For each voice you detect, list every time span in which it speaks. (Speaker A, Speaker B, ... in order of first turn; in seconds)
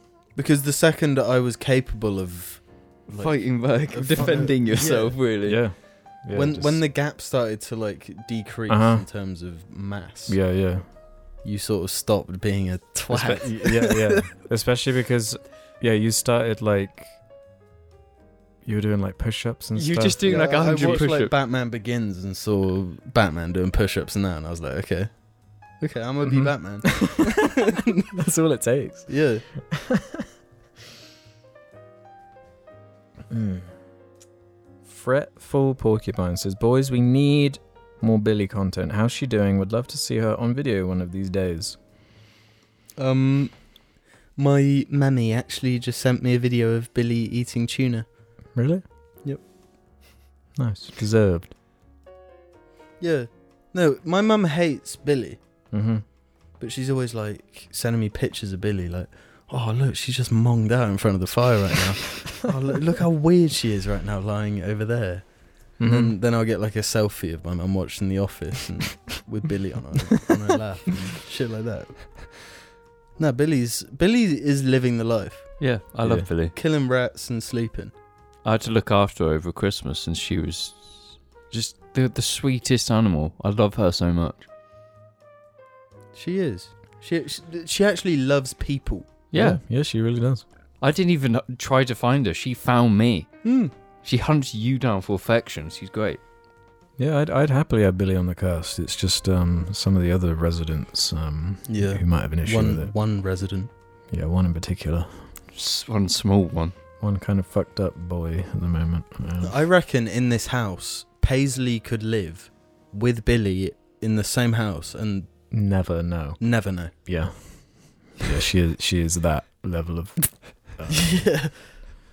Speaker A: 0.3-5.2, 6.3-10.4, 11.4-14.3, 20.2-25.1, 25.8-28.0, 29.1-29.4, 43.0-43.5, 44.4-48.0, 53.0-55.4, 56.6-65.2, 65.8-72.5, 73.2-75.5, 76.5-77.9, 86.1-89.2, 93.4-93.7, 101.7-103.7, 109.4-115.3, 116.4-116.9, 120.9-121.6
Speaker B: 3.1-5.6, 19.7-21.3, 75.6-76.5, 78.4-84.4, 89.3-89.6, 90.8-93.3, 94.0-96.2, 105.5-106.7
Speaker C: 5.4-6.8, 8.7-9.0, 10.3-10.8, 13.1-17.1, 18.6-21.1, 26.2-30.3, 33.3-33.7, 34.8-41.8, 48.5-48.8, 50.5-51.5, 55.7-56.0, 65.8-66.1, 89.3-90.4, 97.0-102.9, 104.1-105.2, 107.0-109.5, 115.5-116.4, 116.9-121.2